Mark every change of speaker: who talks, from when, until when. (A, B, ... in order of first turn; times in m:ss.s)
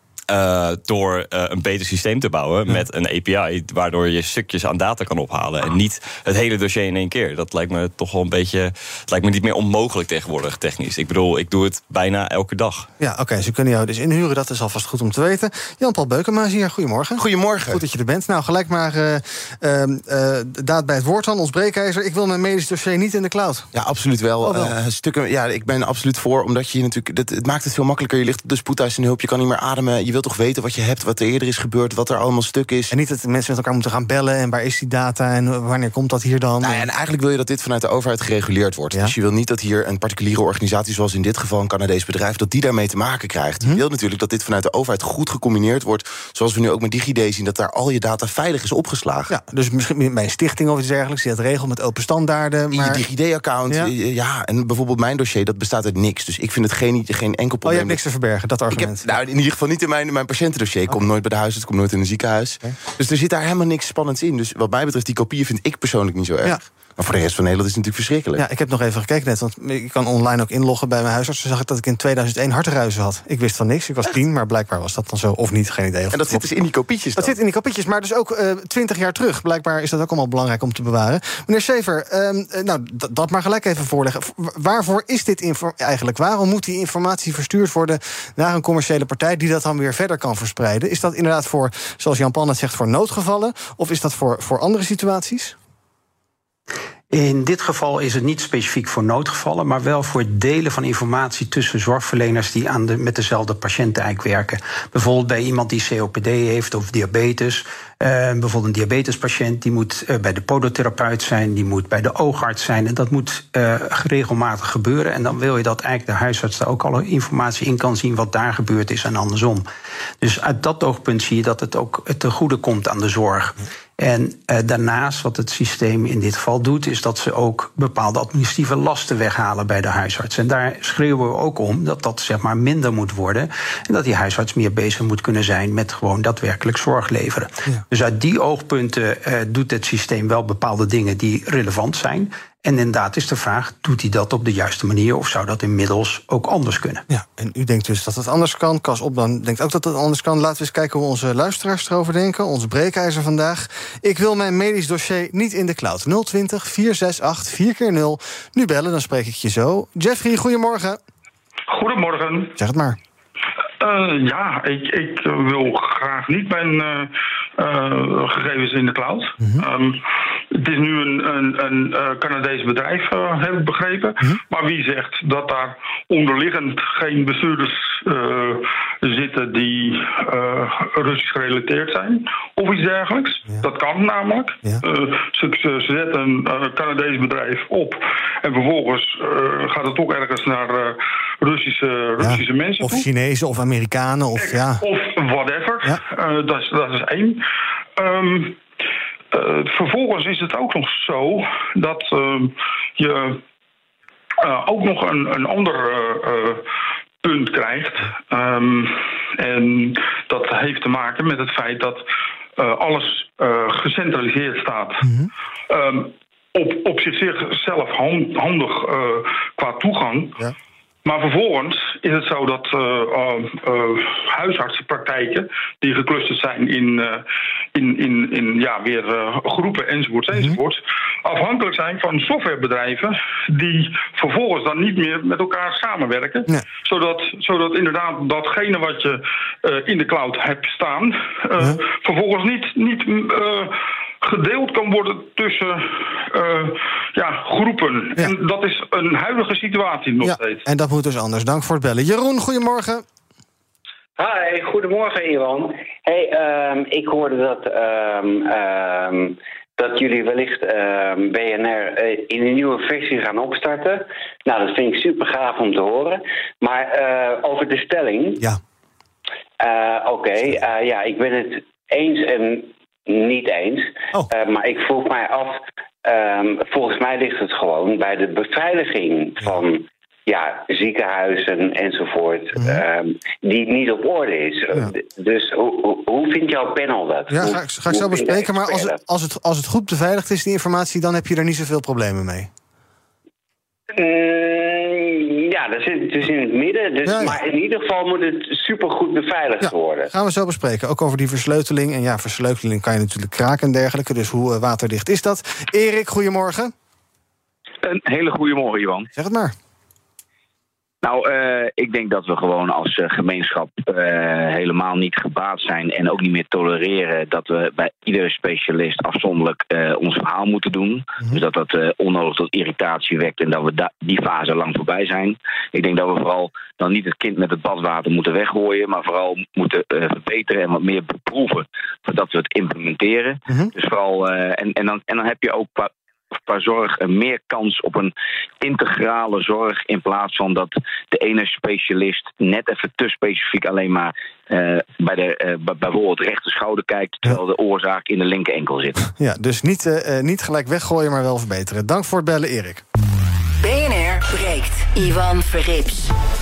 0:00.3-0:12.9 A
0:13.0-0:23.7 B
0:17.2-0:17.8 C
0:23.7-0:32.9 C
0:24.4-0:24.8 B
0:32.9-0:36.9 B
0:36.6-0:49.3 C
0:49.3-0:53.0 B
0:52.7-0:58.0 C
0:57.6-0:59.1 B
0:58.7-1:08.4 C
1:08.4-1:16.4 B
1:16.1-1:17.4 C
1:17.2-1:35.6 B
1:37.1-1:59.7 D
2:00.2-2:27.0 D
2:27.1-2:41.0 B
2:41.7-2:42.5 E
2:42.6-2:43.0 B
2:43.8-2:50.0 E
2:49.4-2:49.7 B
2:50.5-3:13.1 E
3:12.2-3:14.9 B
3:14.4-3:17.4 E
3:18.0-3:18.6 E
3:19.3-3:23.4 E
3:24.4-3:26.6 E
3:27.2-3:32.0 E
3:32.6-3:35.1 E
3:35.0-3:35.3 B
3:35.7-3:40.4 E
3:41.0-3:47.2 E
3:47.8-4:10.6 E
3:50.3-3:50.6 B
4:10.2-4:13.0 B
4:14.2-4:28.4 F
4:29.6-4:49.0 F
4:47.3-4:52.5 B
4:53.9-5:00.1 F
4:57.1-4:57.4 B
4:59.6-5:06.7 B
5:07.8-5:09.1 G
5:09.1-5:09.6 B
5:11.0-5:35.9 G
5:36.5-5:49.0 G
5:49.1-5:52.8 B
5:53.6-5:56.1 H